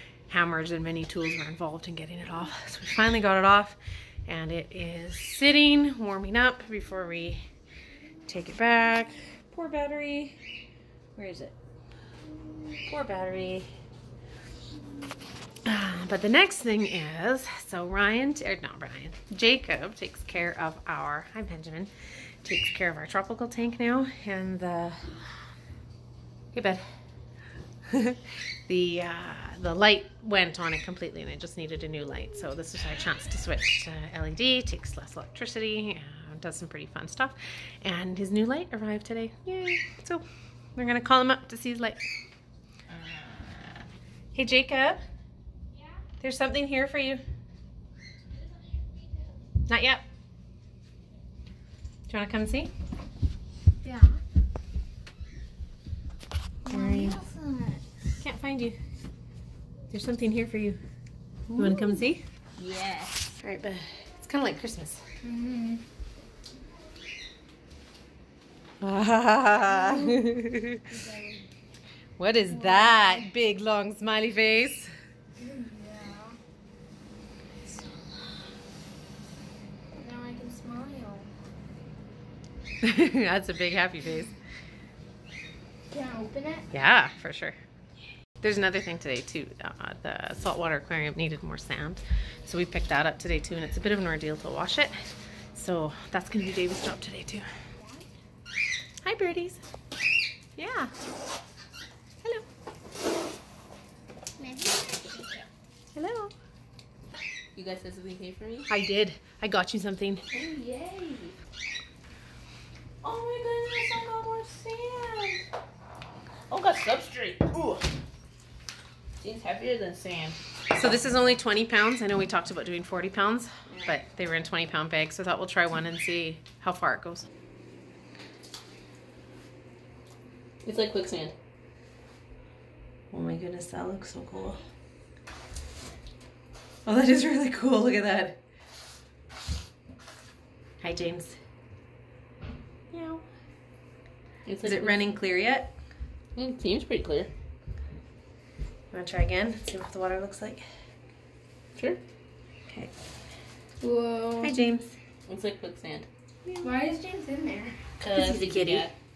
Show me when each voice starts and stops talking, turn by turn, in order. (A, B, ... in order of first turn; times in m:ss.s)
0:00.3-0:07.4 A
0:08.3-0:10.4 A
0:11.2-0:11.6 A
0:12.9-0:13.7 A
0:15.6-0:21.9 A
0:22.4-0:25.1 A
0:26.5-0:26.8 A
0:27.9-0:40.2 A
0:40.8-0:42.0 A
0:42.9-0:43.8 B
0:44.3-0:45.0 A
0:46.2-0:47.2 A
0:49.7-0:50.0 A
0:52.1-0:52.7 A
0:53.8-0:54.2 C
0:56.7-0:57.8 C
0:56.7-0:57.2 A
0:58.2-0:58.8 A
0:59.9-1:00.8 A
1:01.5-1:02.2 A
1:02.6-1:03.4 C
1:03.4-1:05.0 A
1:05.2-1:05.8 C
1:08.8-1:10.8 A
1:09.6-1:11.5 C
1:12.2-1:14.9 A
1:12.4-1:13.3 C
1:15.4-1:16.4 C
1:20.0-1:21.3 C
1:22.8-1:24.3 A
1:25.9-1:26.7 C
1:26.7-1:27.6 A
1:28.4-1:34.9 A
1:35.5-1:37.5 A
1:37.8-1:38.0 C
1:39.0-1:39.6 A
1:40.6-1:40.9 A
1:44.4-1:45.5 C
1:46.0-1:46.3 A
1:47.5-1:48.7 B
1:48.7-1:50.2 A
1:50.3-1:51.4 B
1:53.0-1:55.4 B
1:56.5-1:57.9 B
1:59.2-2:00.4 B
2:00.7-2:07.3 A
2:03.7-2:04.0 B
2:10.6-2:11.4 B
2:13.1-2:14.6 A
2:16.8-2:18.4 A
2:20.8-2:21.4 A
2:22.9-2:23.2 A
2:24.5-2:25.2 B
2:24.6-2:25.7 A
2:26.4-2:27.3 B
2:28.9-2:30.6 A
2:31.8-2:32.0 B
2:32.7-2:32.9 A
2:33.8-2:34.6 C
2:34.4-2:34.9 A
2:35.3-2:36.1 B
2:36.4-2:36.7 A
2:36.6-2:37.8 C
2:38.0-2:38.9 B
2:38.0-2:38.9 A